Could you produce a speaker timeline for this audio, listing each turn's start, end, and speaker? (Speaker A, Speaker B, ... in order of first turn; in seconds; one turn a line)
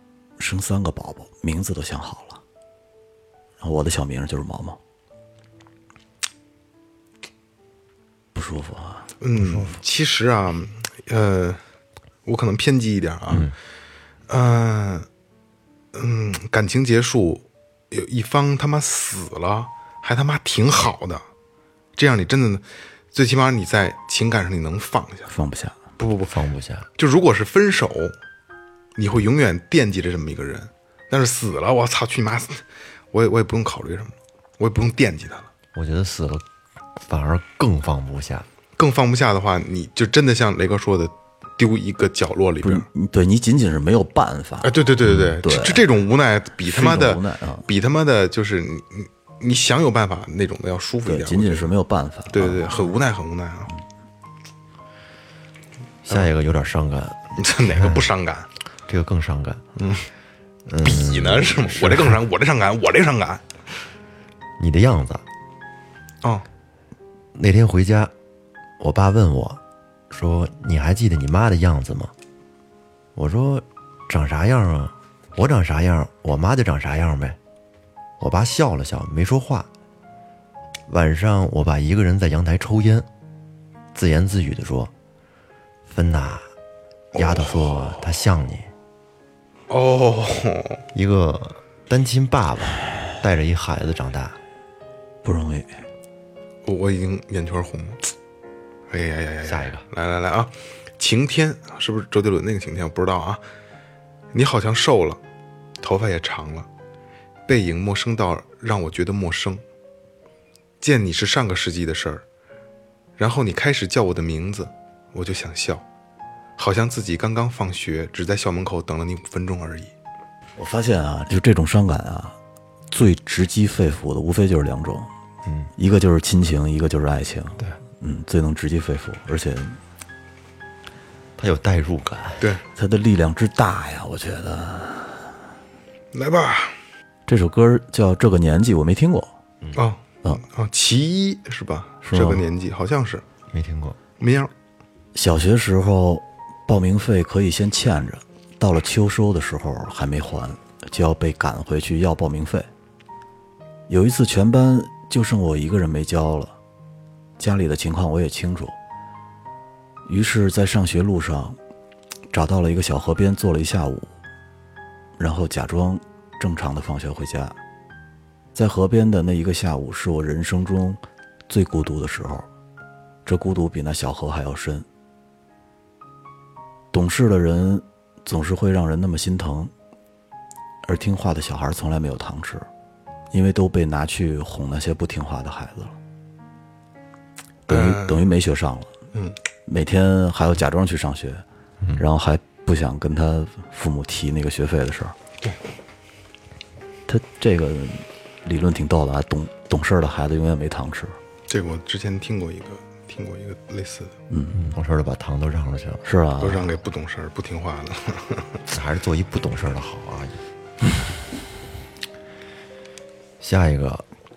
Speaker A: 0.4-2.4
Speaker A: 3.6-4.8
Speaker A: 8.3-9.1
Speaker B: 9.2-11.6
Speaker B: 12.3-13.5
Speaker B: 14.3-15.1
Speaker B: 15.9-21.3
Speaker B: 22.0-25.3
Speaker A: 25.3-25.8
Speaker B: 26.0-26.4
Speaker C: 26.3-26.9
Speaker B: 27.0-28.1
Speaker B: 29.0-35.5
Speaker C: 35.7-36.5
Speaker C: 37.0-38.5
Speaker B: 38.8-42.9
Speaker A: 42.6-44.8
Speaker B: 44.6-51.7
Speaker C: 45.0-45.4
Speaker A: 45.4-45.8
Speaker A: 46.6-47.7
Speaker A: 51.1-52.8
Speaker B: 52.3-53.7
Speaker C: 56.0-58.1
Speaker B: 57.4-58.5
Speaker C: 58.9-59.6
Speaker B: 59.8-60.1
Speaker C: 60.7-62.2
Speaker B: 60.8-63.4
Speaker C: 64.6-65.2
Speaker C: 67.3-68.1
Speaker C: 68.8-72.1
Speaker C: 73.1-77.4
Speaker C: 78.2-79.7
Speaker C: 80.9-83.1
Speaker C: 83.9-84.9
Speaker C: 85.9-86.5
Speaker B: 87.1-88.0
Speaker C: 87.1-88.7
Speaker B: 89.7-90.8
Speaker C: 90.9-94.4
Speaker A: 95.2-95.8
Speaker B: 96.6-98.0
Speaker B: 98.9-103.4
Speaker C: 99.4-99.8
Speaker B: 104.3-105.2
Speaker B: 105.8-106.7
Speaker B: 107.5-109.6
Speaker B: 110.8-112.2
Speaker B: 113.2-115.8
Speaker B: 116.6-119.9
Speaker A: 120.6-122.4
Speaker A: 122.9-125.1
Speaker C: 125.5-125.7
Speaker A: 125.8-129.8
Speaker C: 131.4-132.4
Speaker A: 132.8-135.4
Speaker B: 136.1-136.8
Speaker A: 137.3-139.3
Speaker B: 139.8-143.2
Speaker A: 142.0-142.4
Speaker C: 143.5-144.0
Speaker B: 144.2-144.5
Speaker A: 145.1-152.7
Speaker A: 153.9-156.6
Speaker A: 157.4-158.8
Speaker A: 160.1-161.6
Speaker A: 162.3-164.1
Speaker A: 165.2-167.6
Speaker A: 168.6-172.5
Speaker A: 173.3-174.9
Speaker A: 176.9-179.7
Speaker A: 180.8-182.7
Speaker A: 183.3-186.0
Speaker A: 187.7-188.9
Speaker B: 187.7-188.3
Speaker A: 189.7-191.4
Speaker A: 192.0-195.2
Speaker A: 197.1-201.2
Speaker B: 201.5-204.2
Speaker A: 204.3-204.6
Speaker C: 204.5-206.0
Speaker A: 206.1-206.6
Speaker B: 206.4-208.6
Speaker C: 208.7-210.4
Speaker C: 213.4-214.1